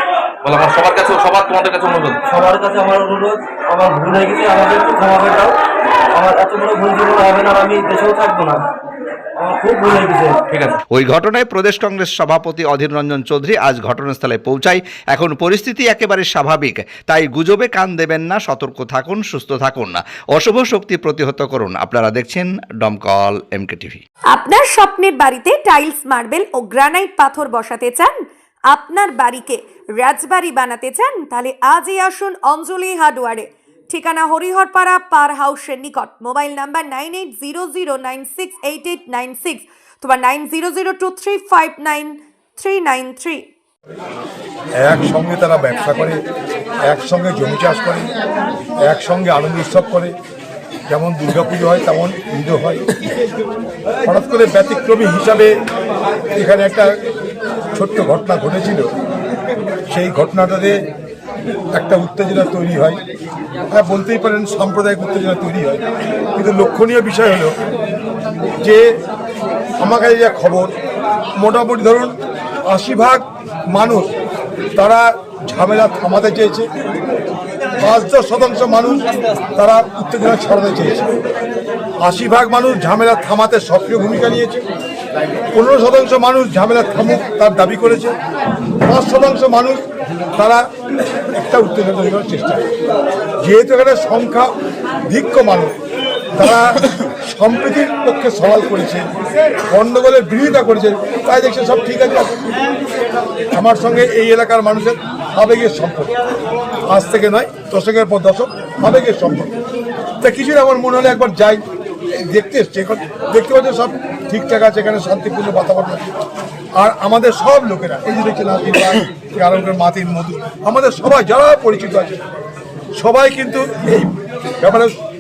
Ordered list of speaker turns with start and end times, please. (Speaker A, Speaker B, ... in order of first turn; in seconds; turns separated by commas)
Speaker A: 0.4-2.2, Speaker B: 2.2-5.6, Speaker B: 6.2-8.6, Speaker B: 9.4-10.4, Speaker A: 10.5-10.8, Speaker C: 10.9-24.0, Speaker D: 24.3-43.5, Speaker E: 44.8-46.2, Speaker E: 46.9-48.1, Speaker E: 48.8-50.1, Speaker E: 50.9-52.8, Speaker E: 54.1-55.5, Speaker E: 56.4-56.9, Speaker E: 57.8-58.9, Speaker E: 59.9-60.8, Speaker E: 61.7-63.0, Speaker E: 63.7-67.5, Speaker E: 69.8-70.7, Speaker E: 71.4-72.1, Speaker E: 72.7-74.1, Speaker E: 74.8-76.7, Speaker E: 77.8-81.1, Speaker E: 82.0-84.6, Speaker E: 85.5-88.1, Speaker E: 88.8-89.8, Speaker E: 90.4-90.6, Speaker E: 91.3-92.7, Speaker E: 93.4-94.5, Speaker E: 95.1-95.7, Speaker E: 96.3-99.0, Speaker E: 99.7-102.4, Speaker E: 103.5-106.1, Speaker E: 106.9-109.5, Speaker E: 110.2-111.6, Speaker E: 112.1-116.1, Speaker E: 116.8-122.2, Speaker E: 123.0-124.9